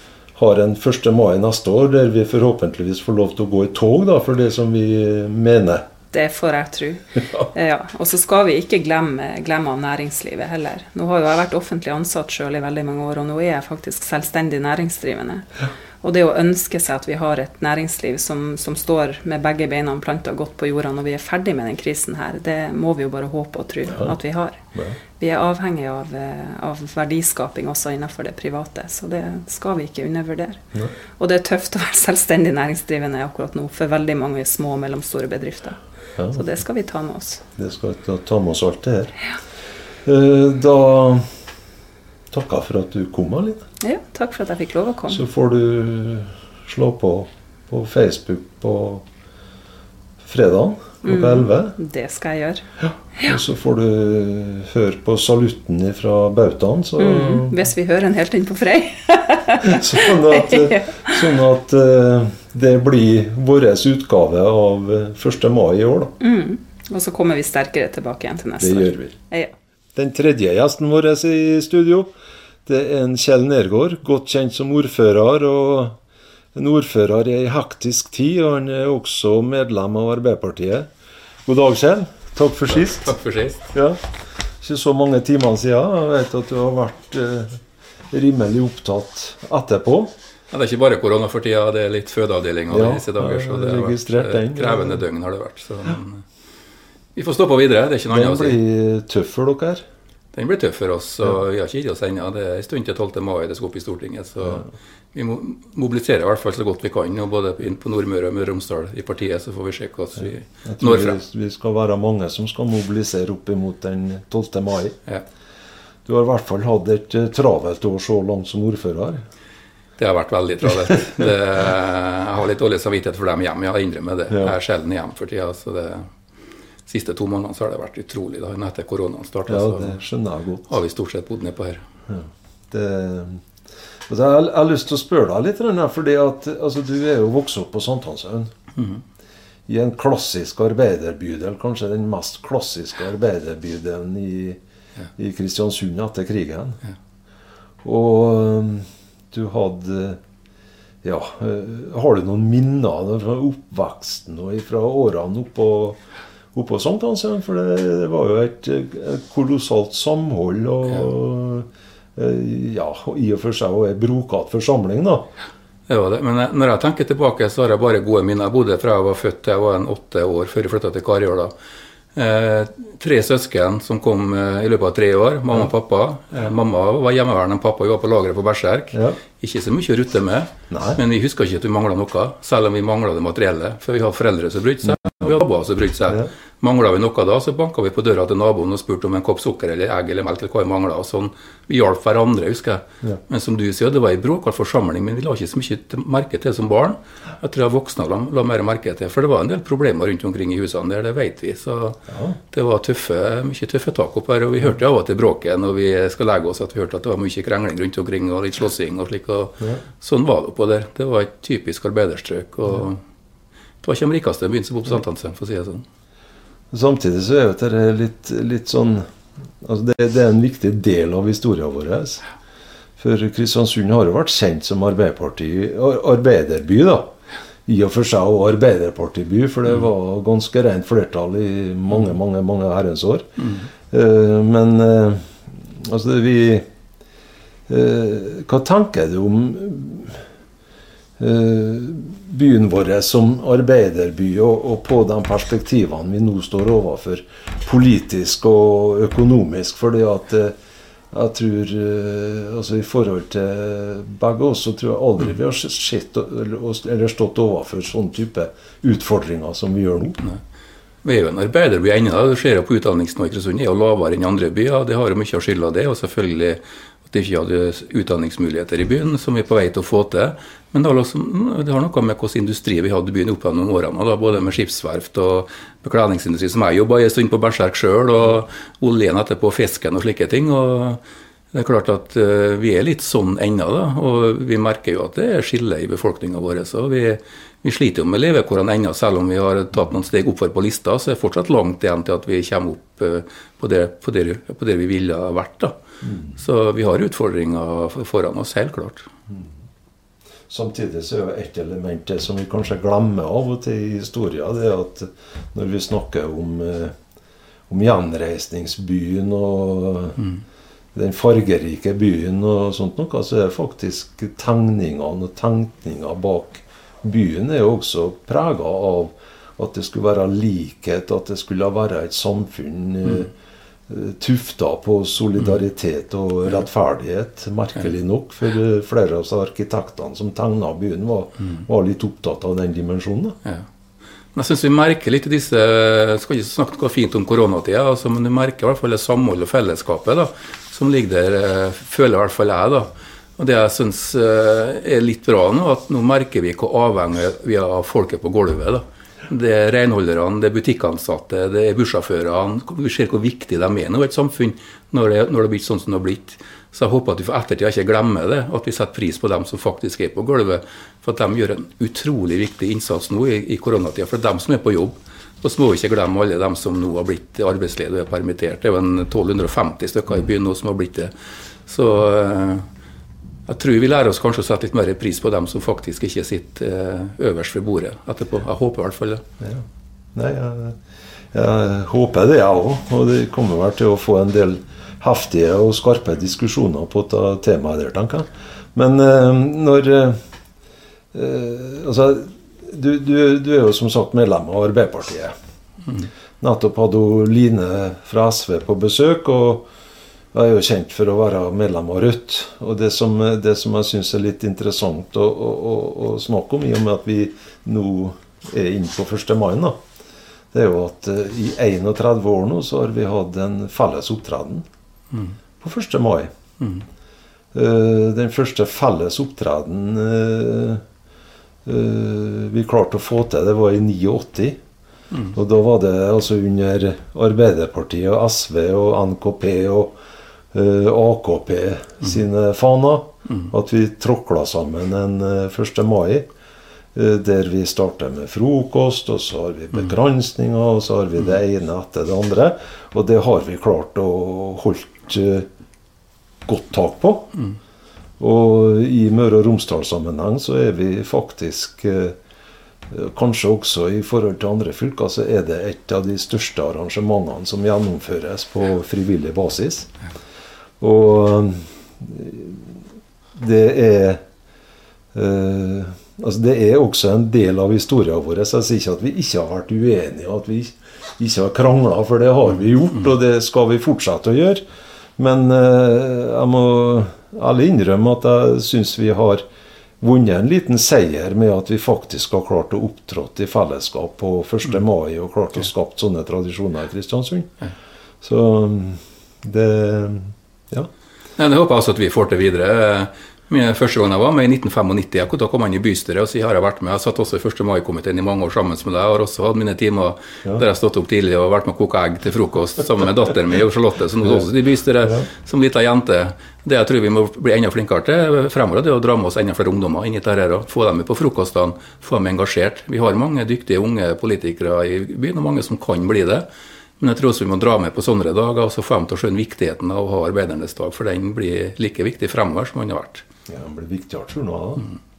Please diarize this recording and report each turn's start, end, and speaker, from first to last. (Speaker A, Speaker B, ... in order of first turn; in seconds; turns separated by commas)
Speaker A: 0.3-5.8, Speaker B: 6.1-24.6, Speaker A: 24.7-25.0, Speaker B: 25.2-30.7, Speaker B: 31.2-35.8, Speaker A: 36.2-36.5, Speaker B: 36.3-37.4, Speaker A: 37.6-39.2, Speaker A: 40.0-41.3, Speaker A: 42.3-43.7, Speaker B: 43.8-45.2, Speaker A: 45.1-49.0, Speaker A: 50.2-51.8, Speaker B: 51.0-52.7, Speaker A: 52.8-57.6, Speaker B: 57.0-61.2, Speaker A: 59.6-66.1, Speaker B: 66.2-69.5, Speaker A: 68.6-69.2, Speaker A: 70.0-72.1, Speaker A: 72.7-76.0, Speaker A: 76.5-80.9, Speaker A: 81.5-83.1, Speaker C: 83.0-83.6, Speaker A: 83.7-84.0, Speaker A: 84.6-90.1, Speaker C: 90.5-96.2, Speaker A: 92.7-95.0, Speaker C: 97.2-98.6, Speaker A: 98.1-99.8, Speaker C: 100.3-111.2, Speaker A: 110.6-115.0, Speaker A: 116.1-119.2, Speaker C: 120.0-126.1, Speaker C: 126.9-130.0, Speaker A: 129.5-130.7, Speaker C: 130.7-131.8, Speaker A: 132.1-133.4, Speaker A: 134.1-138.5, Speaker A: 139.7-144.6, Speaker A: 145.2-146.8, Speaker A: 147.8-150.2, Speaker A: 151.0-156.0, Speaker A: 156.5-165.3, Speaker C: 165.9-171.5, Speaker C: 172.2-213.0, Speaker A: 178.9-179.2, Speaker A: 180.7-181.0, Speaker A: 202.1-202.4, Speaker C: 213.8-215.8, Speaker A: 216.7-219.1, Speaker A: 219.6-222.3, Speaker A: 223.0-227.1, Speaker A: 227.7-236.7, Speaker A: 237.7-240.2, Speaker A: 241.2-250.6, Speaker A: 251.1-260.2, Speaker C: 261.0-281.0, Speaker C: 281.5-295.8, Speaker A: 296.0-296.3, Speaker C: 296.4-299.1, Speaker A: 300.5-306.9, Speaker A: 307.7-310.3, Speaker A: 310.9-323.3, Speaker A: 323.9-333.4, Speaker C: 334.3-371.1, Speaker C: 371.7-372.7, Speaker C: 373.5-379.2, Speaker A: 379.4-380.8, Speaker A: 381.3-390.2, Speaker A: 391.1-395.4, Speaker A: 396.4-399.7, Speaker A: 400.3-409.8, Speaker A: 410.5-414.7, Speaker A: 415.6-416.3, Speaker C: 416.6-416.9, Speaker A: 417.5-420.8, Speaker A: 421.7-424.6, Speaker A: 425.3-430.0, Speaker A: 430.5-436.3, Speaker A: 436.9-445.5, Speaker A: 446.5-447.4, Speaker A: 448.2-452.2, Speaker A: 452.9-459.9, Speaker A: 460.8-462.8, Speaker A: 463.4-464.2, Speaker A: 465.1-474.6, Speaker A: 475.2-479.4, Speaker A: 480.0-487.5, Speaker A: 488.2-490.9, Speaker C: 491.4-516.5, Speaker C: 517.0-523.2, Speaker A: 523.5-524.9